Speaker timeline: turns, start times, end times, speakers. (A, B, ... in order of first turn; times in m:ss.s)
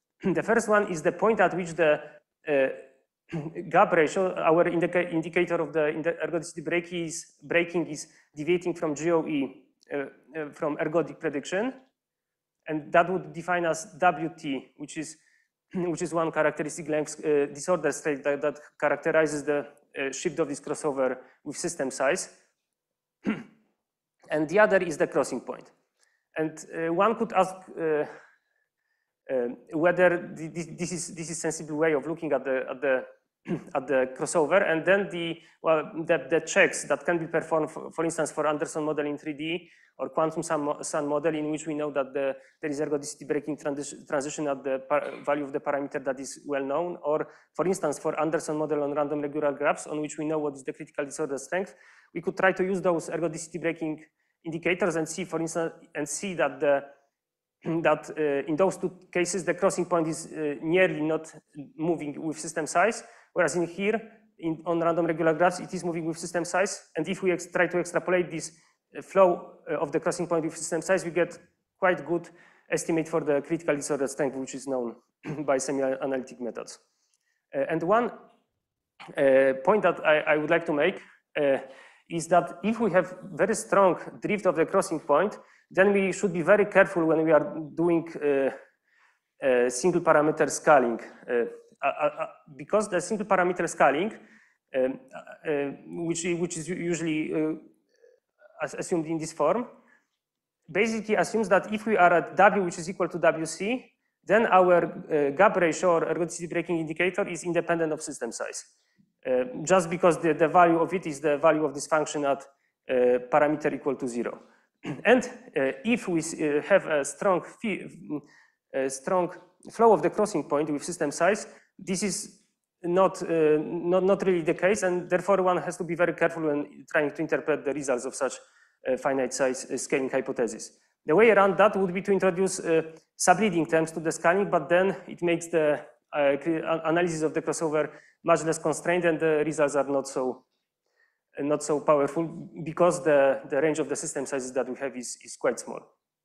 0:00.2-0:11.8 A
0:12.6-0:15.2 A
0:15.7-0:22.3 A
0:24.3-0:25.7 A
0:26.3-0:28.1 A
0:29.3-0:56.9 A
0:57.6-1:16.8 A
1:17.5-1:18.3 A
1:19.1-1:28.6 A
1:29.4-1:34.2 A
1:34.7-1:37.7 A
1:38.6-1:39.7 A
1:40.7-1:48.7 A
1:49.2-2:20.4 A
2:21.4-2:25.9 A